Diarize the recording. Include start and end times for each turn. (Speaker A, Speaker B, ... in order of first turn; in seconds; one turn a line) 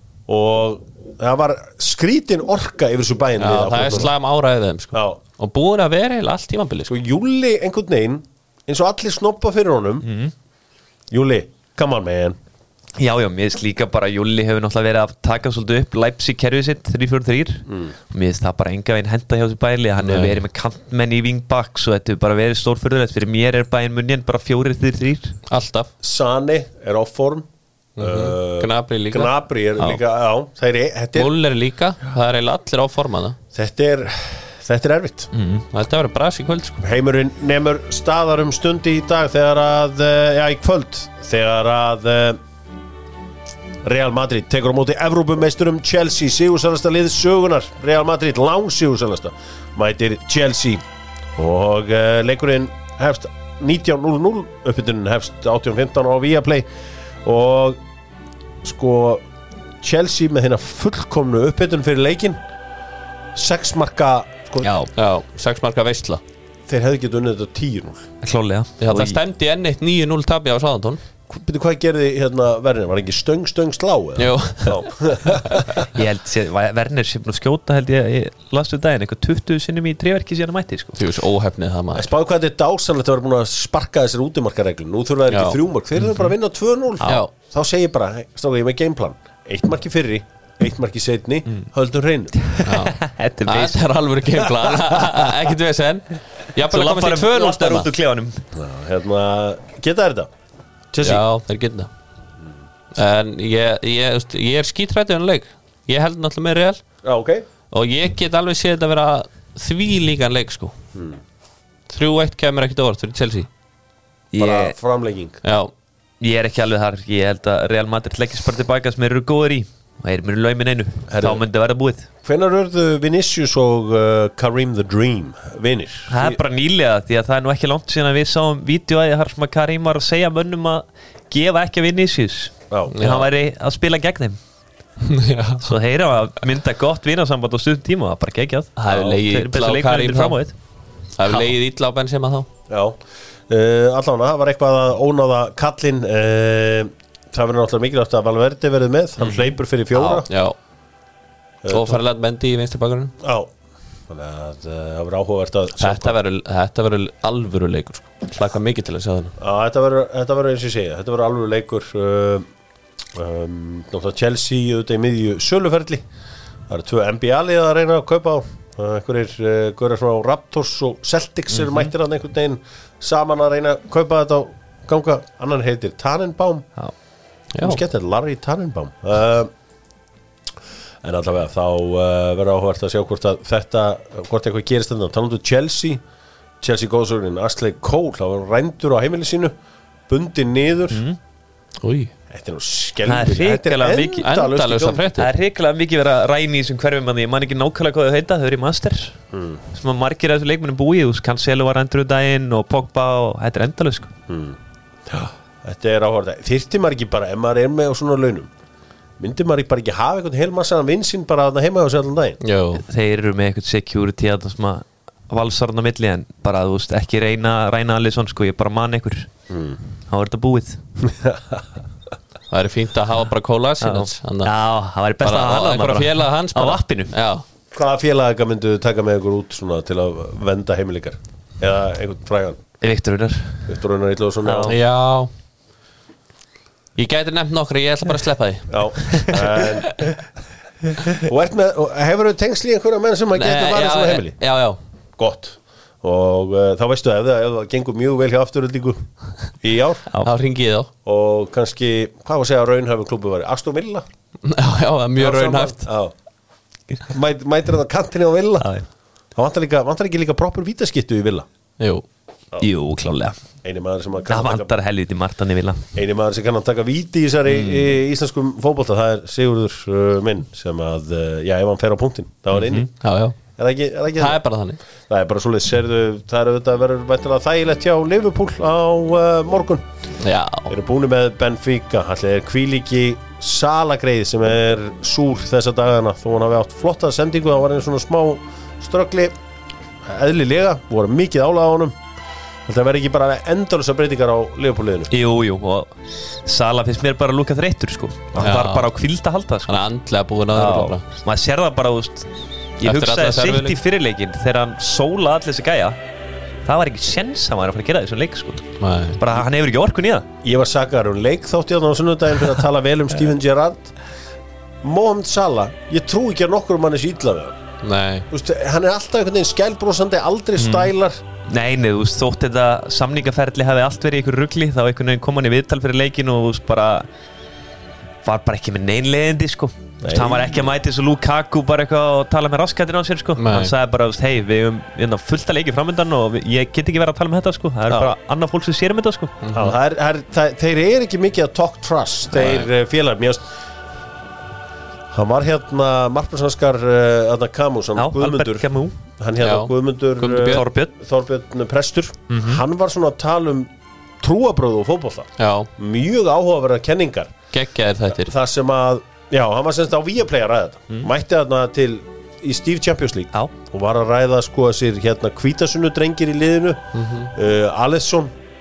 Speaker A: 0.3-4.1
Speaker B: 3.4-6.9
Speaker A: 4.9-5.2
Speaker A: 6.9-10.1
Speaker C: 10.0-10.3
Speaker A: 11.1-12.4
Speaker C: 13.0-25.4
Speaker B: 20.0-20.4
Speaker B: 25.5-25.9
Speaker A: 26.0-27.5
Speaker B: 28.0-29.3
Speaker A: 28.0-31.3
Speaker B: 31.1-33.4
Speaker A: 33.5-35.3
Speaker C: 35.3-35.6
Speaker B: 35.7-36.8
Speaker A: 36.8-42.4
Speaker A: 43.9-50.8
Speaker A: 51.4-56.7
Speaker A: 57.2-57.8
Speaker A: 58.6-59.2
Speaker A: 59.8-62.4
Speaker A: 63.4-64.7
Speaker C: 64.6-64.9
Speaker B: 64.9-66.2
Speaker A: 66.7-68.0
Speaker C: 68.2-69.2
Speaker B: 68.8-71.0
Speaker A: 71.3-75.9
Speaker B: 74.2-75.7
Speaker C: 75.9-81.0
Speaker B: 81.0-82.1
Speaker A: 81.9-92.4
Speaker B: 85.3-85.6
Speaker C: 86.0-86.3
Speaker C: 92.4-93.8
Speaker B: 92.6-97.9
Speaker A: 94.6-95.0
Speaker C: 96.7-98.4
Speaker A: 98.5-100.3
Speaker A: 100.9-101.2
Speaker B: 101.0-101.9
Speaker B: 102.9-106.8
Speaker A: 107.0-107.5
Speaker B: 107.7-110.7
Speaker B: 111.9-113.5
Speaker C: 114.3-114.8
Speaker A: 114.4-115.4
Speaker B: 115.4-115.7
Speaker C: 116.2-122.1
Speaker A: 121.1-121.4
Speaker A: 122.2-126.4
Speaker C: 126.1-134.4
Speaker A: 132.7-132.9
Speaker B: 132.9-133.3
Speaker B: 135.0-135.7
Speaker C: 135.6-140.5
Speaker B: 138.8-140.4
Speaker B: 141.2-142.5
Speaker A: 142.7-150.3
Speaker C: 150.0-150.2
Speaker B: 150.2-150.5
Speaker A: 151.6-152.0
Speaker B: 151.7-153.1
Speaker A: 153.2-153.5
Speaker A: 154.1-156.2
Speaker B: 155.8-159.3
Speaker A: 159.4-162.5
Speaker A: 163.1-166.0
Speaker A: 166.7-176.7
Speaker B: 177.5-177.8
Speaker A: 177.6-179.5
Speaker A: 181.0-186.0
Speaker A: 186.6-189.5
Speaker A: 190.1-191.0
Speaker C: 190.9-191.2
Speaker B: 191.8-192.1
Speaker A: 192.3-195.1
Speaker C: 193.1-194.3
Speaker B: 194.2-195.3
Speaker C: 195.1-199.1
Speaker A: 199.3-199.6
Speaker C: 199.7-204.1
Speaker A: 204.3-208.5
Speaker A: 209.2-212.4
Speaker B: 212.4-212.8
Speaker C: 212.7-219.3
Speaker A: 219.5-219.8
Speaker C: 220.1-220.8
Speaker A: 221.0-221.6
Speaker B: 222.5-224.5
Speaker C: 223.8-227.1
Speaker B: 225.2-227.4
Speaker A: 227.7-232.6
Speaker C: 232.8-233.7
Speaker A: 233.7-234.8
Speaker C: 234.4-234.7
Speaker B: 234.7-235.3
Speaker B: 237.0-240.0
Speaker A: 238.7-240.0
Speaker A: 241.1-244.4
Speaker B: 243.3-244.8
Speaker A: 245.2-249.0
Speaker A: 249.6-250.0
Speaker B: 250.2-250.9
Speaker A: 251.0-254.1
Speaker B: 254.4-255.9
Speaker A: 255.2-256.1
Speaker A: 257.1-258.7
Speaker C: 258.6-258.9
Speaker A: 259.4-261.4
Speaker B: 261.8-262.0
Speaker C: 262.6-263.4
Speaker A: 263.6-264.7
Speaker C: 264.3-265.9
Speaker A: 265.9-272.9
Speaker C: 267.5-267.9
Speaker C: 272.5-272.9
Speaker B: 273.0-273.4
Speaker A: 273.6-274.4
Speaker B: 274.2-274.8
Speaker A: 275.1-279.9
Speaker B: 280.2-280.7
Speaker A: 280.7-289.3
Speaker A: 290.0-291.9
Speaker A: 292.7-295.1
Speaker C: 295.1-299.8
Speaker B: 298.4-298.9
Speaker B: 299.7-301.0
Speaker C: 300.5-302.3
Speaker C: 302.8-306.0
Speaker B: 302.8-303.8
Speaker C: 306.6-308.7
Speaker B: 308.8-309.2
Speaker C: 309.2-310.2
Speaker A: 310.4-313.9
Speaker A: 314.8-317.6
Speaker B: 317.8-318.3
Speaker A: 318.3-321.2
Speaker C: 320.6-320.9
Speaker C: 321.5-327.1
Speaker C: 328.2-339.4
Speaker A: 330.0-330.7
Speaker B: 333.4-333.7
Speaker A: 337.9-338.1
Speaker B: 339.4-339.7
Speaker A: 339.5-343.5
Speaker B: 342.4-342.7
Speaker A: 345.1-357.4
Speaker C: 347.9-348.9
Speaker B: 349.4-350.6
Speaker C: 350.4-350.9
Speaker C: 352.3-352.6
Speaker B: 355.4-355.7
Speaker B: 357.5-358.3
Speaker A: 358.1-368.3
Speaker B: 366.9-367.3